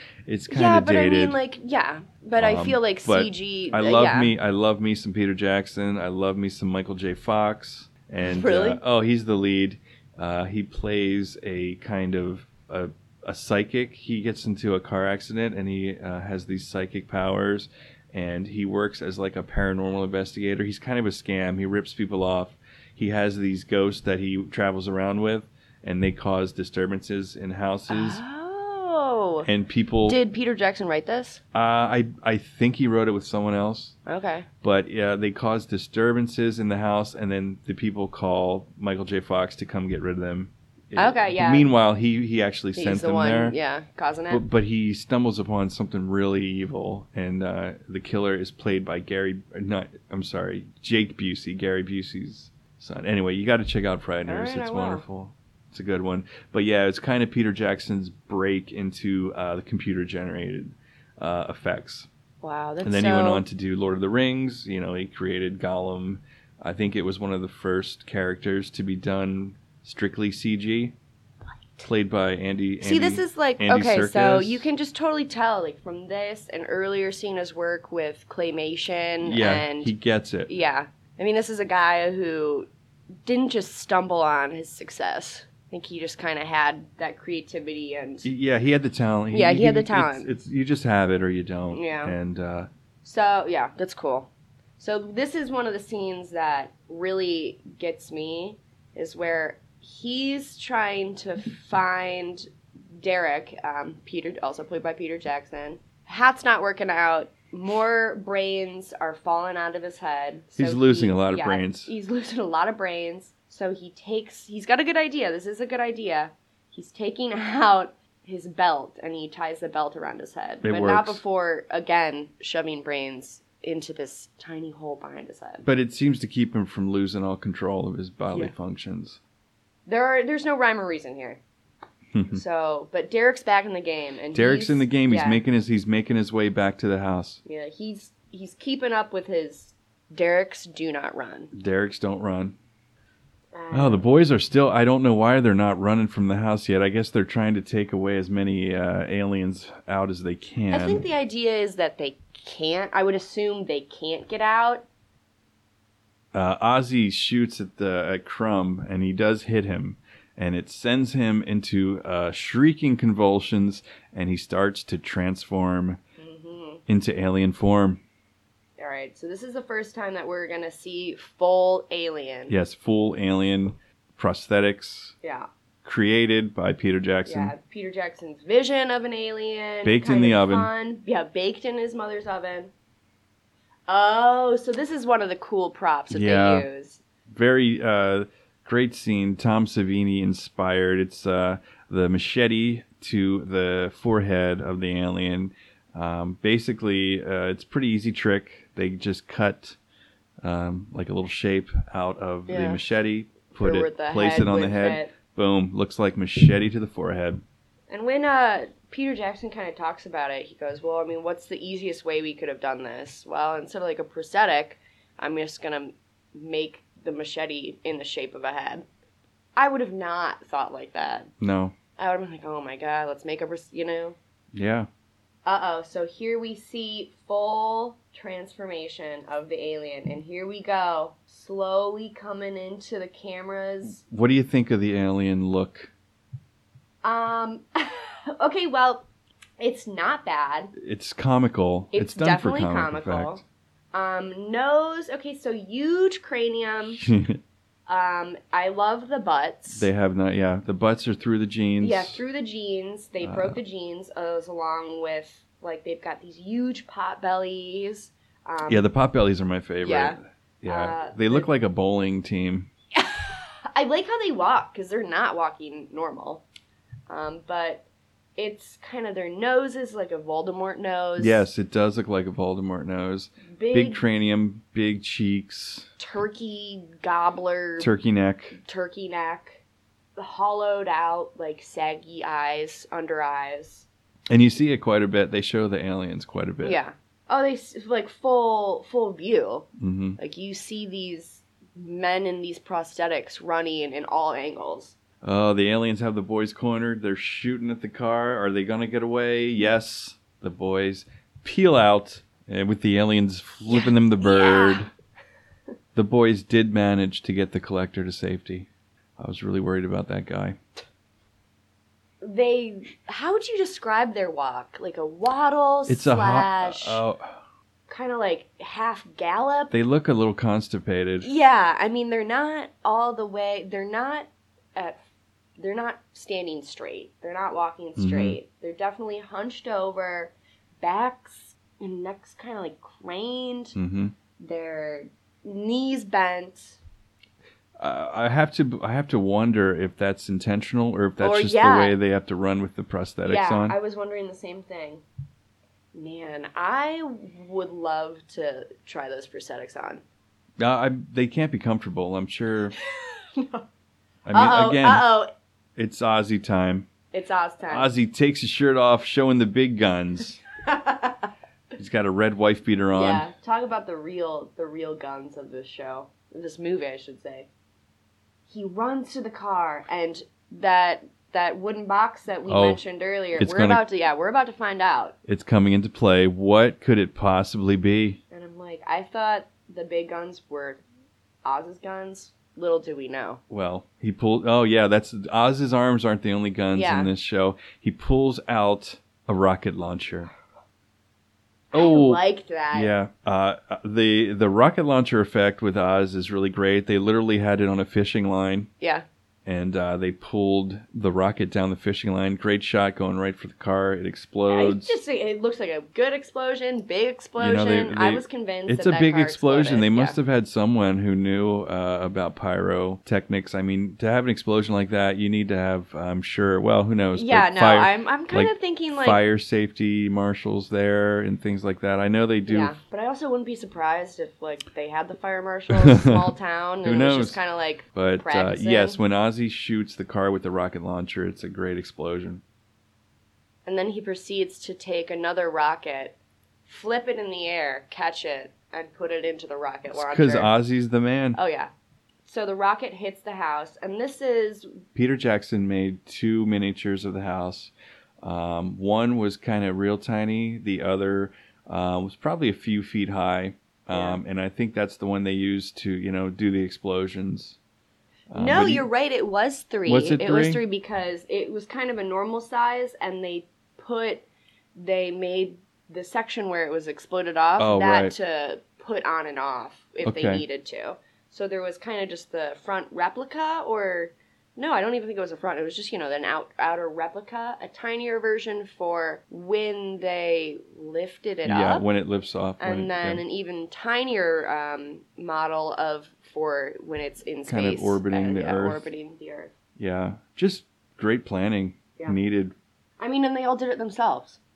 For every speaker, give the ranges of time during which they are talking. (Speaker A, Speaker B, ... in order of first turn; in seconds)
Speaker A: 0.3-1.4, 2.4-28.2, 29.4-30.2, 31.5-34.0, 34.6-43.6, 44.3-62.1, 62.8-70.9, 71.8-74.7, 79.2-80.5, 88.2-92.7, 110.6-111.9, 120.6-121.2, 125.6-129.2, 132.1-132.4, 134.3-137.4, 141.5-142.6, 143.7-151.1, 156.3-166.0, 166.9-168.0, 172.5-175.2, 175.8-177.5, 179.8-180.7, 186.1-186.7, 187.3-199.8, 200.4-207.4, 221.4-221.8, 224.5-224.9, 234.0-235.9, 240.8-243.4, 246.9-247.4, 249.7-252.2, 253.2-253.6, 258.7-262.7, 271.2-275.9, 277.8-278.6, 284.3-286.8, 289.8-290.2, 295.2-304.9, 305.9-310.6, 315.9-317.4, 319.7-321.3, 328.0-328.4, 333.8-334.1, 337.8-343.8, 350.6-352.8, 354.3-355.1, 355.8-356.9, 357.7-360.4, 361.8-363.3, 372.5-372.8, 373.4-373.8, 375.3-378.2, 383.5-390.3, 391.7-392.2, 392.7-398.7, 399.5-404.9, 407.4-422.8, 425.7-426.3, 426.8-427.4, 427.9-432.4, 439.9-441.4, 444.9-457.6, 458.3-458.9, 459.9-460.6, 467.6-468.1, 470.0-470.4, 481.4-483.2, 487.5-488.9, 489.8-492.6
Speaker B: 0.5-4.3, 8.2-8.8, 27.9-29.5, 30.1-31.4, 34.1-34.5, 41.0-41.7, 42.8-44.5, 54.3-55.0, 62.4-63.4, 72.8-79.9, 80.5-82.7, 83.2-88.3, 89.3-90.3, 91.7-92.2, 93.0-125.7, 129.9-131.4, 132.3-135.4, 137.4-141.5, 143.5-144.1, 150.7-154.8, 166.2-166.8, 168.8-172.6, 175.2-175.5, 177.3-182.7, 183.9-187.0, 202.5-202.8, 203.6-205.1, 207.9-218.9, 219.6-221.3, 222.0-224.2, 225.4-234.0, 237.0-239.1, 239.6-240.7, 241.9-243.4, 243.9-247.1, 247.9-249.9, 251.8-258.9, 259.8-261.5, 262.9-266.4, 267.1-267.9, 268.4-271.5, 273.5-274.0, 276.0-277.9, 278.6-279.6, 280.2-283.9, 286.6-294.9, 303.7-304.9, 312.2-317.0, 317.9-319.7, 321.2-325.0, 325.6-333.8, 334.4-336.8, 341.2-342.0, 343.2-345.0, 345.9-350.0, 352.8-353.6, 354.3-355.3, 357.1-357.9, 360.6-361.3, 362.9-367.5, 368.5-375.1, 378.3-380.8, 381.4-383.4, 386.8-387.1, 391.7-392.9, 398.8-399.1, 404.5-410.2, 417.1-419.2, 422.5-429.0, 433.6-440.5, 441.4-441.7, 442.2-444.8, 453.9-454.2, 458.4-464.2, 464.8-481.9, 482.6-489.5, 493.0-494.4